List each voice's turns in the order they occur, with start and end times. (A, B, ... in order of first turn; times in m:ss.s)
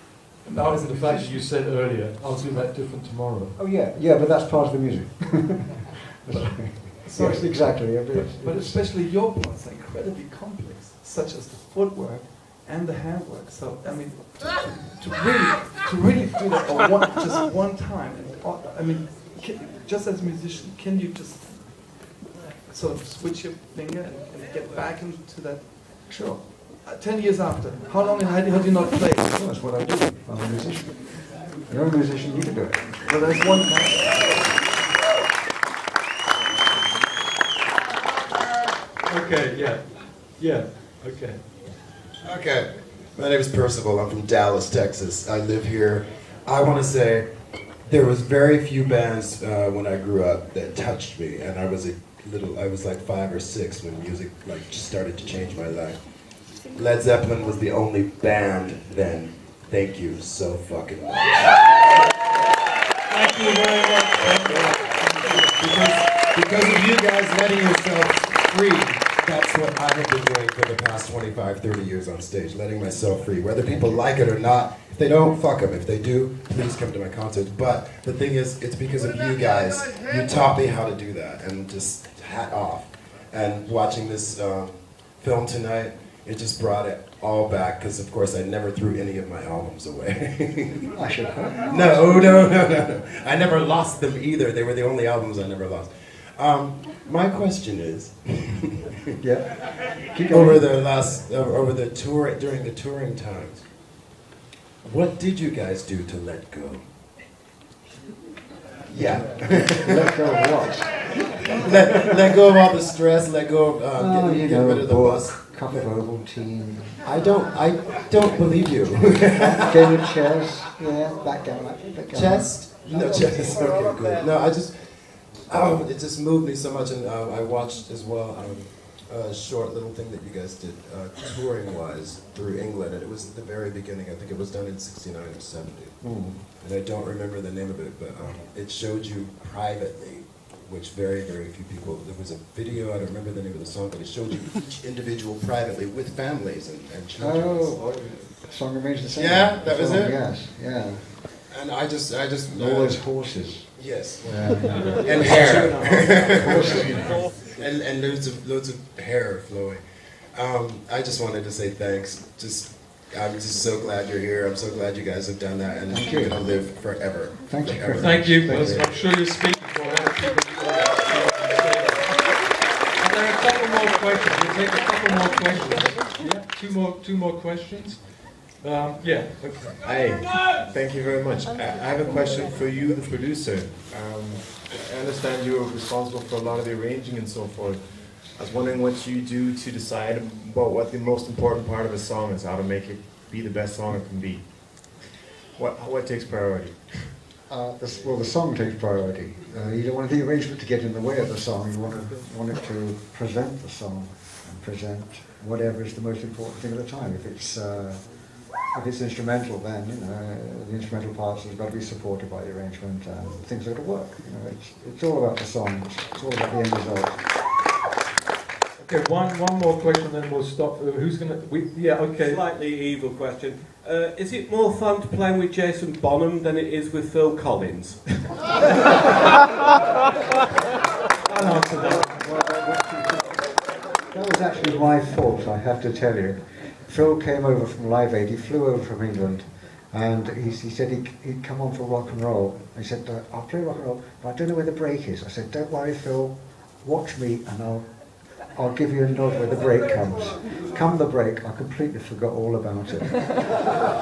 0:00.4-0:01.5 A
0:00.6-0:03.6 B
0:03.6-0:08.9 C
0:06.3-0:29.4 A
0:26.1-0:26.4 C
0:29.3-0:33.0 C
0:33.0-0:34.4 A
0:39.0-0:41.5 B
0:42.2-1:01.7 D
1:03.1-1:03.7 A
1:03.8-1:30.9 D
1:04.8-1:05.2 A
1:30.9-1:32.6 C
1:31.6-1:38.6 D
1:39.2-1:40.9 C
1:40.3-1:43.8 D
1:44.8-1:46.9 D
1:48.9-1:55.8 D
1:49.0-1:52.0 C
1:54.0-1:57.0 C
1:57.0-1:59.8 D
1:59.0-2:02.8 C
2:02.1-2:27.9 D
2:16.0-2:16.4 C
2:27.2-2:31.3 C
2:29.2-2:30.3 D
2:31.4-2:48.4 D
2:32.5-2:37.3 C
2:35.5-2:37.4 E
2:45.9-2:46.7 C
2:47.5-2:49.0 C
2:48.0-2:59.8 B
2:59.8-3:15.0 F
3:15.6-3:17.1 F
3:17.5-3:37.4 C
3:38.8-3:42.4 B
3:42.2-3:48.2 E
3:51.3-3:52.1 E
3:51.7-4:13.7 C